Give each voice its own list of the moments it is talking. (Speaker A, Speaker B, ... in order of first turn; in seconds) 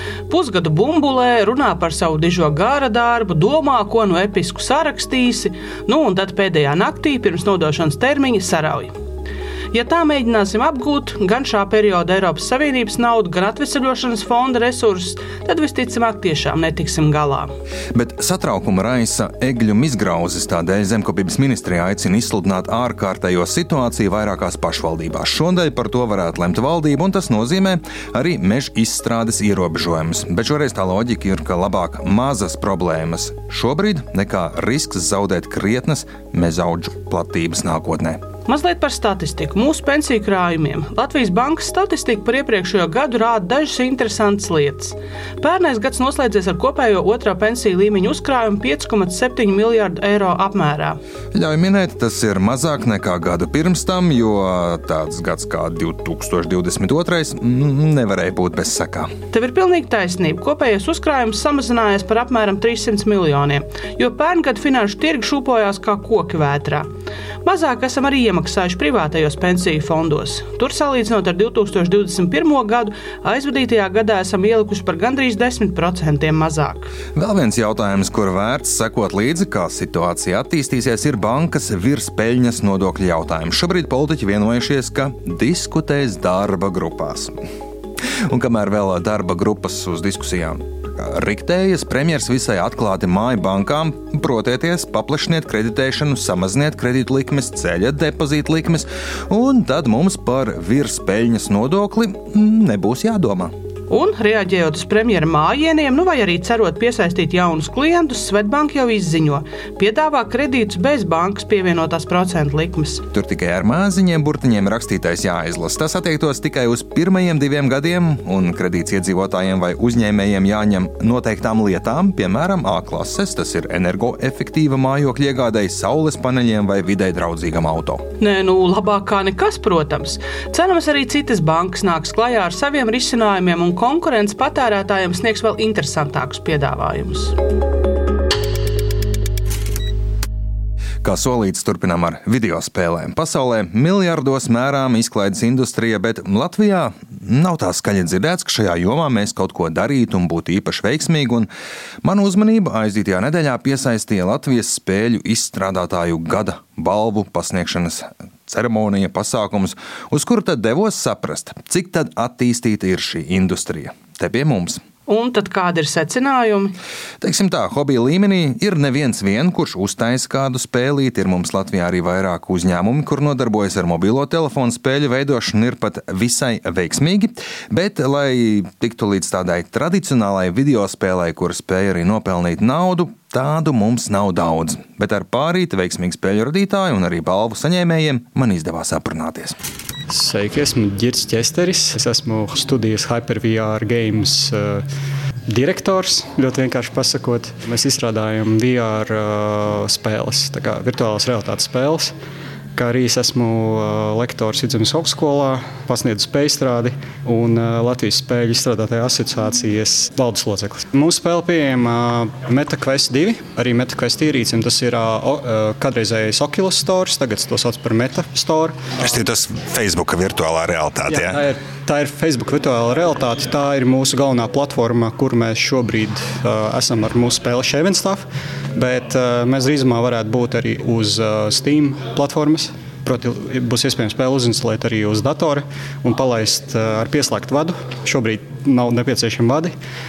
Speaker A: 0.3-8.9, 9.7-17.5, 38.5-51.0, 59.3-66.9, 67.4-76.9, 103.9-113.0, 128.2-137.4, 165.1-166.8
Speaker B: 17.9-38.2, 51.3-59.1, 77.2-87.3, 88.3-103.5, 113.1-128.0, 141.0-151.5, 152.0-164.8, 167.2-189.6
Speaker C: 190.1-194.8, 195.5-202.1, 202.8-218.8, 221.1-228.2, 228.7-239.7
Speaker D: 219.1-221.4